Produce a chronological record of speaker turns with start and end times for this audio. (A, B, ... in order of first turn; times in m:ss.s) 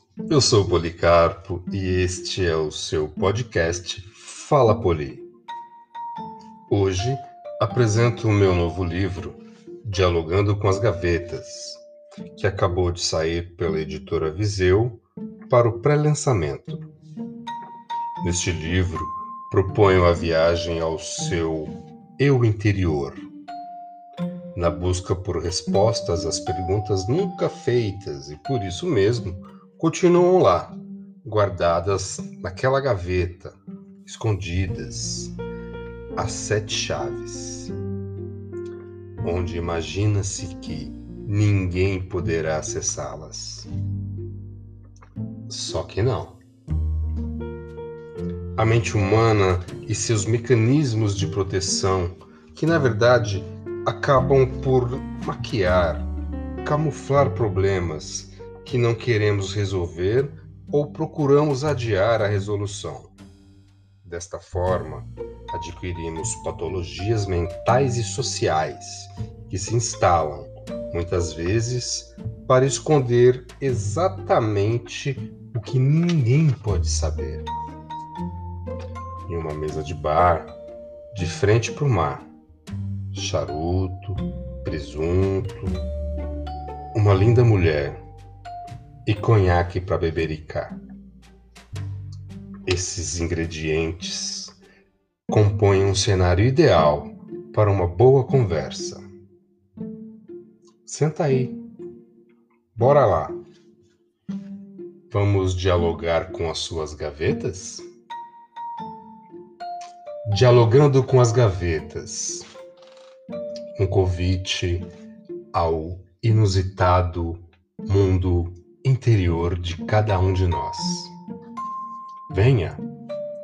0:00.3-0:05.2 A
0:06.7-0:11.8 A
0:12.3-0:16.8 A
0:18.2-0:23.2 A
0:24.5-0:35.4 A
0:36.2-0:37.7 A
0:39.2-0:43.7 A
0:45.5-0:46.4 A
0:48.6-0:56.1 A
0:56.6-1:03.1 A
1:04.0-1:17.5 A
1:19.2-1:20.5 A
1:21.1-1:22.3 A
1:23.1-1:25.8 A
1:26.9-1:28.0 A
1:29.0-1:30.8 A
1:32.6-1:34.6 A
1:35.3-1:39.0 A
1:40.8-1:41.6 A
1:42.7-1:43.4 A
1:45.1-1:47.8 A
1:50.2-1:52.4 A
1:53.7-1:54.9 A
1:55.5-2:01.1 A
2:02.3-2:02.8 A